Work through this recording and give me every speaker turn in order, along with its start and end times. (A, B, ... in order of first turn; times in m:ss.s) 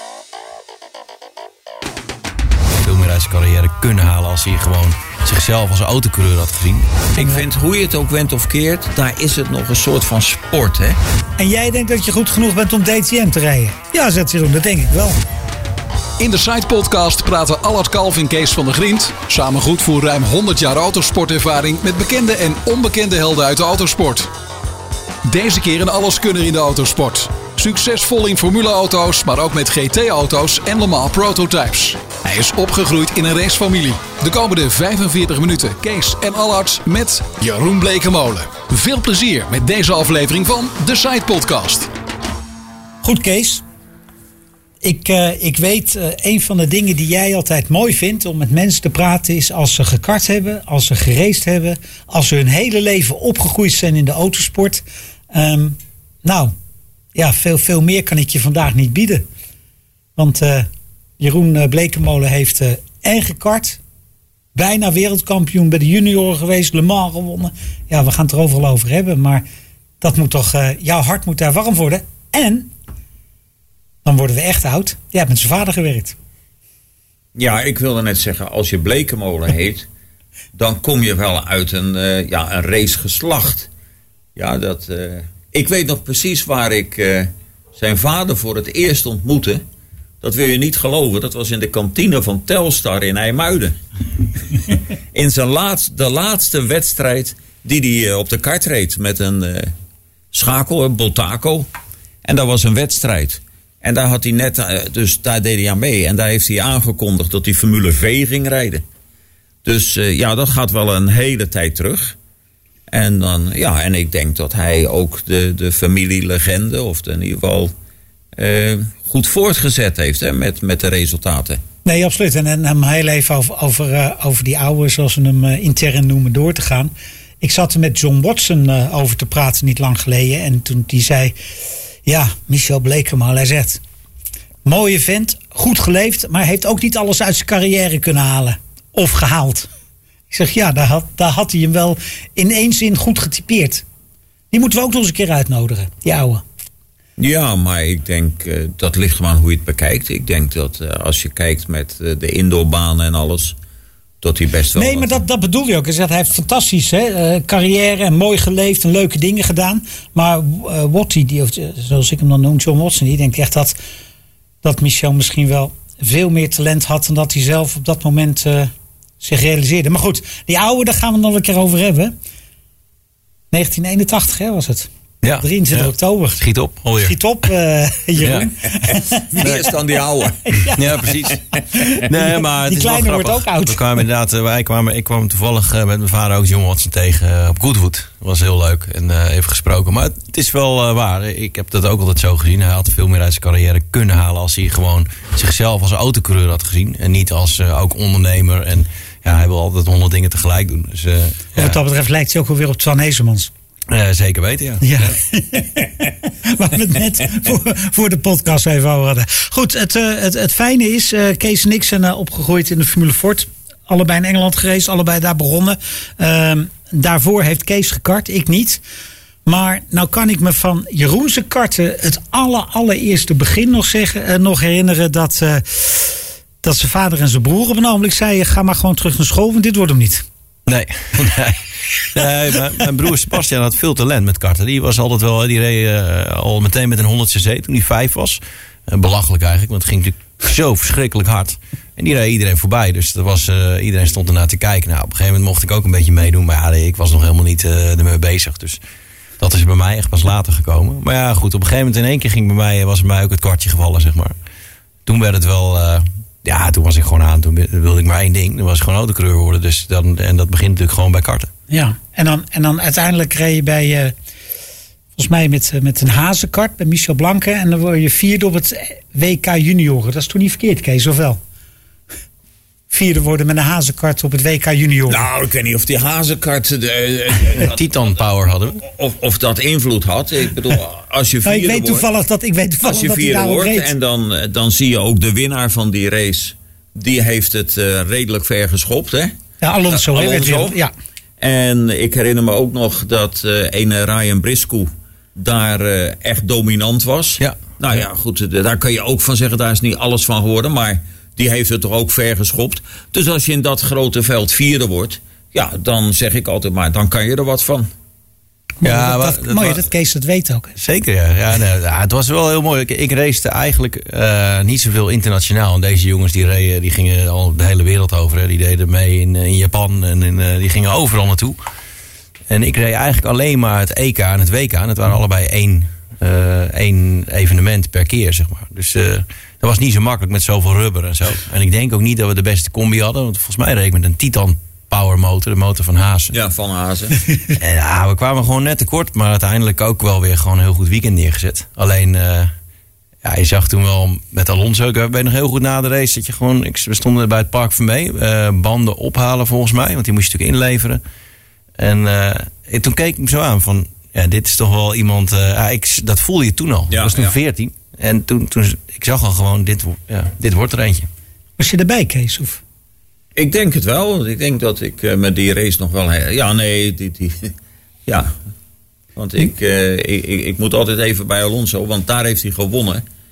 0:02.8-0:07.0 A
0:07.1-0:11.0 B
0:07.2-0:07.4 C
0:11.4-0:15.2 C
0:16.2-0:24.3 D
0:25.2-0:41.9 D
0:43.0-0:43.6 C
0:44.8-0:56.5 C
0:57.2-0:59.2 C
1:00.2-1:00.7 C
1:01.2-1:03.8 C
1:04.6-1:09.4 C
1:10.0-1:12.7 C
1:14.0-1:16.2 C
1:17.4-1:19.9 B
1:20.6-1:23.7 B
1:24.4-1:29.6 B
1:30.2-1:33.8 B
1:34.5-1:39.7 B
1:40.3-1:41.7 B
1:42.2-1:48.8 B
1:49.6-1:52.2 B
1:52.9-1:57.7 B
1:58.4-2:01.6 B
2:01.8-2:11.4 C
2:12.1-2:13.8 C
2:14.6-2:19.7 C
2:20.3-2:23.8 C
2:24.5-2:26.4 C
2:27.2-2:33.6 B
2:34.2-2:35.2 B
2:34.8-2:43.8 C
2:44.6-2:52.2 C
2:53.5-2:54.9 C
2:55.2-2:57.2 A
2:55.4-2:56.4 C
2:57.0-2:59.6 C
2:58.2-2:58.5 A
2:59.3-3:00.6 B
3:00.5-3:04.0 C
3:00.7-3:01.4 A
3:02.0-3:21.8 A
3:21.6-3:23.5 C
3:23.9-3:24.8 A
3:24.8-3:38.8 C
3:39.5-3:50.2 C
3:50.7-4:08.8 A
4:09.4-4:14.3 A
4:15.1-4:21.5 A
4:21.7-4:24.1 C
4:25.2-4:31.4 C
4:32.9-4:35.2 C
4:35.1-4:37.9 B
4:37.6-4:38.8 A
4:38.8-4:42.1 B
4:41.4-4:43.9 C
4:42.8-4:49.3 B
4:49.6-4:50.9 C
4:49.9-4:50.8 B
4:51.4-5:07.9 B
5:08.8-5:10.8 C
5:08.8-5:09.8 A
5:10.8-5:21.6 A
5:22.5-5:36.4 A
5:36.3-5:37.2 B
5:37.5-5:42.5 A
5:43.2-5:51.0 A
5:51.8-6:01.1 A
5:56.9-5:57.3 B
6:01.6-6:02.6 C
6:03.4-6:07.5 B
6:08.1-6:08.4 B
6:09.2-6:13.0 B